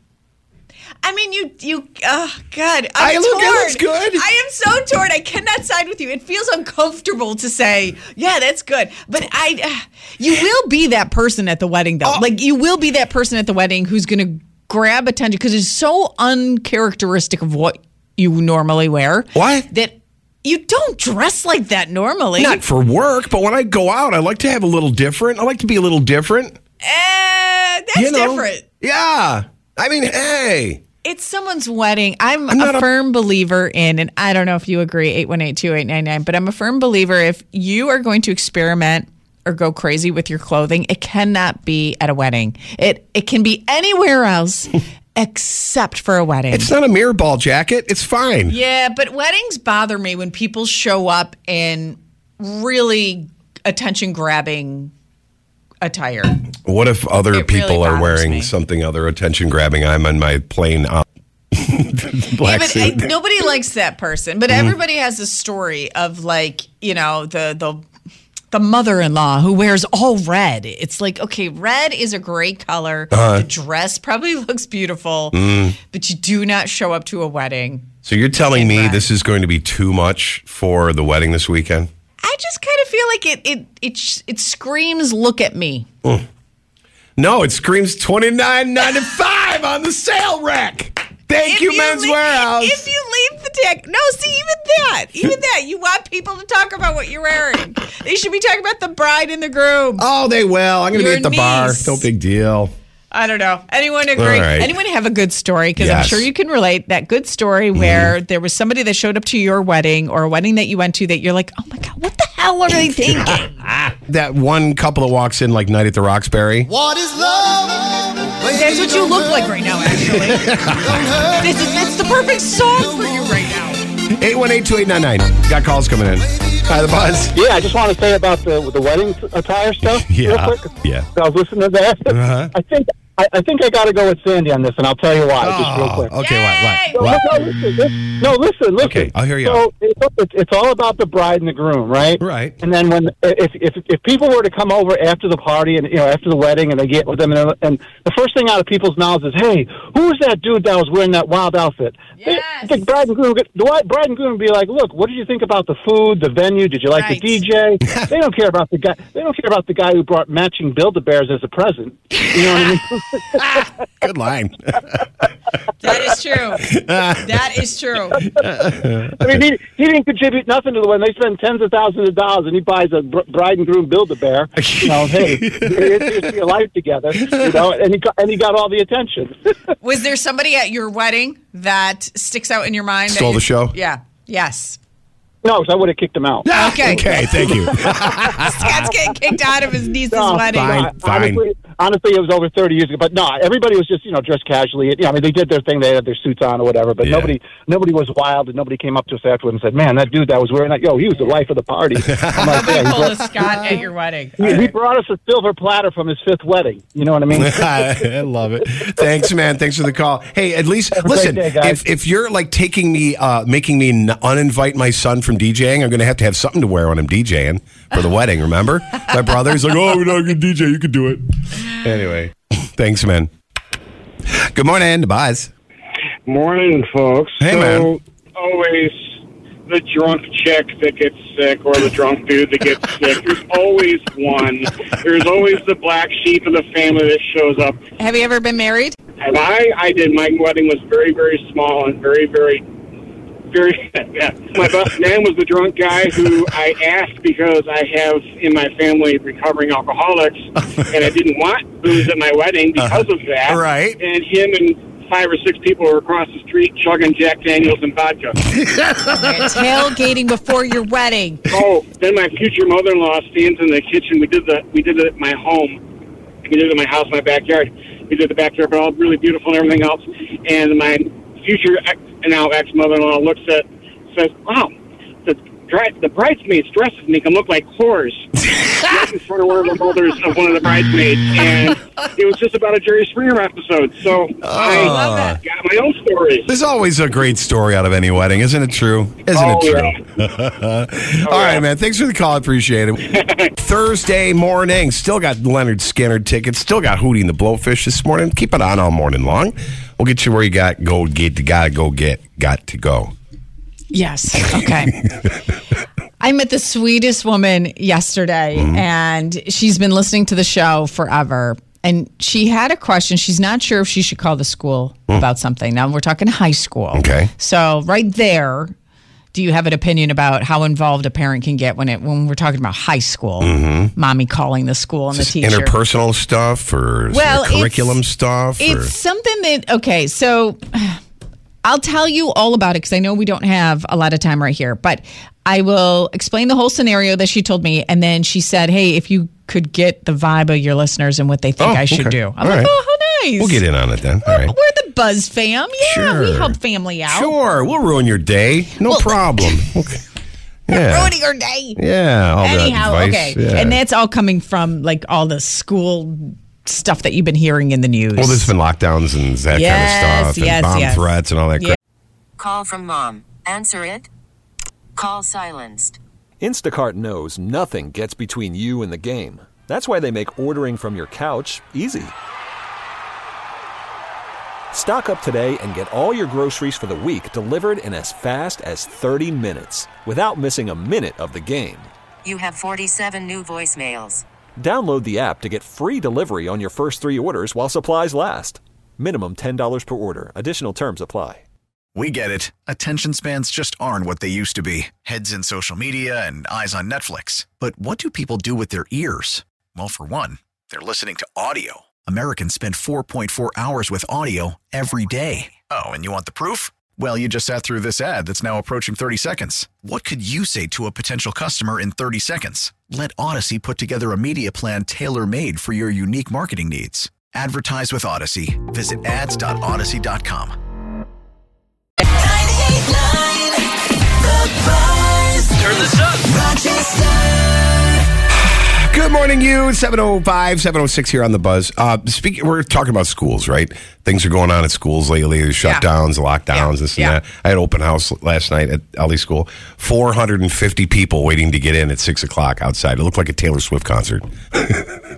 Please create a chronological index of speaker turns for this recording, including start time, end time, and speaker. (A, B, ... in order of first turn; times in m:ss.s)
0:01.0-0:22.6 A
0:03.0-0:04.2 B
0:19.4-0:19.6 B
0:22.4-0:26.6 B
0:26.8-0:28.6 A
0:27.9-0:30.8 B
0:31.0-0:46.7 A
0:32.5-0:32.9 B
0:46.5-0:48.6 B
0:48.5-0:54.9 A
0:55.8-0:56.4 A
0:56.6-1:03.1 B
0:57.3-0:58.5 A
1:02.4-1:07.8 A
1:08.5-1:17.9 A
1:13.1-1:13.4 B
1:15.3-1:15.8 B
1:18.0-1:21.9 B
1:18.5-1:19.1 A
1:22.2-1:25.9 A
1:27.2-1:32.8 B
1:31.4-1:40.1 A
1:40.0-1:42.7 B
1:40.9-1:42.0 A
1:43.1-1:53.6 A
1:44.2-1:44.8 B
1:45.8-1:46.3 B
1:47.7-1:48.1 B
1:53.8-1:56.7 B
1:58.4-2:00.6 A
2:00.1-2:01.2 B
2:01.3-2:03.8 A
2:04.1-2:07.4 B
2:07.3-2:16.1 C
2:10.0-2:11.1 B
2:12.1-2:12.5 B
2:15.4-2:17.3 B
2:16.2-2:17.4 A
2:16.9-2:43.5 C
2:18.8-2:19.6 B
2:22.2-2:22.6 B
2:32.2-2:32.8 A
2:36.9-2:37.4 A
2:37.8-2:38.1 B
2:42.3-2:42.8 B
2:43.3-2:45.1 B
2:45.8-2:48.3 A
2:46.6-2:47.5 B
2:48.2-2:49.4 B
2:49.2-2:59.3 C
2:54.6-2:56.3 B
2:57.2-2:57.6 B
2:59.8-3:04.8 A
3:03.1-3:03.7 B
3:05.4-3:08.0 C
3:06.4-3:08.9 B
3:06.5-3:10.9 A
3:10.1-3:23.3 C
3:10.5-3:11.4 B
3:17.0-3:17.4 B
3:22.0-3:23.7 B
3:22.5-3:24.7 A
3:24.4-3:27.9 C
3:27.3-3:43.3 B
3:30.9-3:31.8 C
3:44.3-3:45.5 B
3:47.4-3:48.0 B
3:48.4-3:57.8 D
3:58.0-3:59.0 A
3:59.2-4:02.6 D
4:03.5-4:18.4 D
4:12.8-4:14.0 B
4:18.6-4:19.7 B
4:19.1-4:21.4 A
4:21.5-4:25.8 D
4:26.4-4:34.7 D
4:35.2-4:46.5 D
4:44.4-4:45.4 B
4:44.8-4:45.3 A
4:46.5-5:03.1 B
4:49.3-4:50.0 D
4:51.3-4:51.6 D
4:53.1-4:53.5 D
5:03.9-5:05.0 A
5:04.5-5:04.7 B
5:06.2-5:18.7 A
5:08.6-5:08.8 B
5:16.9-5:17.3 B
5:19.3-5:25.7 A
5:23.4-5:23.9 B
5:25.1-5:28.9 B
5:27.1-5:28.0 A
5:28.6-5:31.0 A
5:31.6-5:43.6 A
5:41.6-5:42.7 B
5:43.4-5:44.5 B
5:44.2-5:47.3 A
5:45.8-5:46.6 B
5:47.1-5:50.0 B
5:48.9-5:49.6 A
5:50.7-5:51.1 B
5:50.7-5:51.8 A
5:51.8-5:53.8 B
5:52.4-5:58.5 A
5:58.2-6:01.8 B
5:59.5-6:01.8 A
6:02.4-6:04.1 E
6:05.0-6:06.0 E
6:06.4-6:12.1 F
6:14.7-6:21.9 F
6:22.2-6:24.2 E
6:24.6-6:31.4 F
6:31.9-7:00.6 G
7:08.3-7:25.0 B
7:16.5-7:17.2 A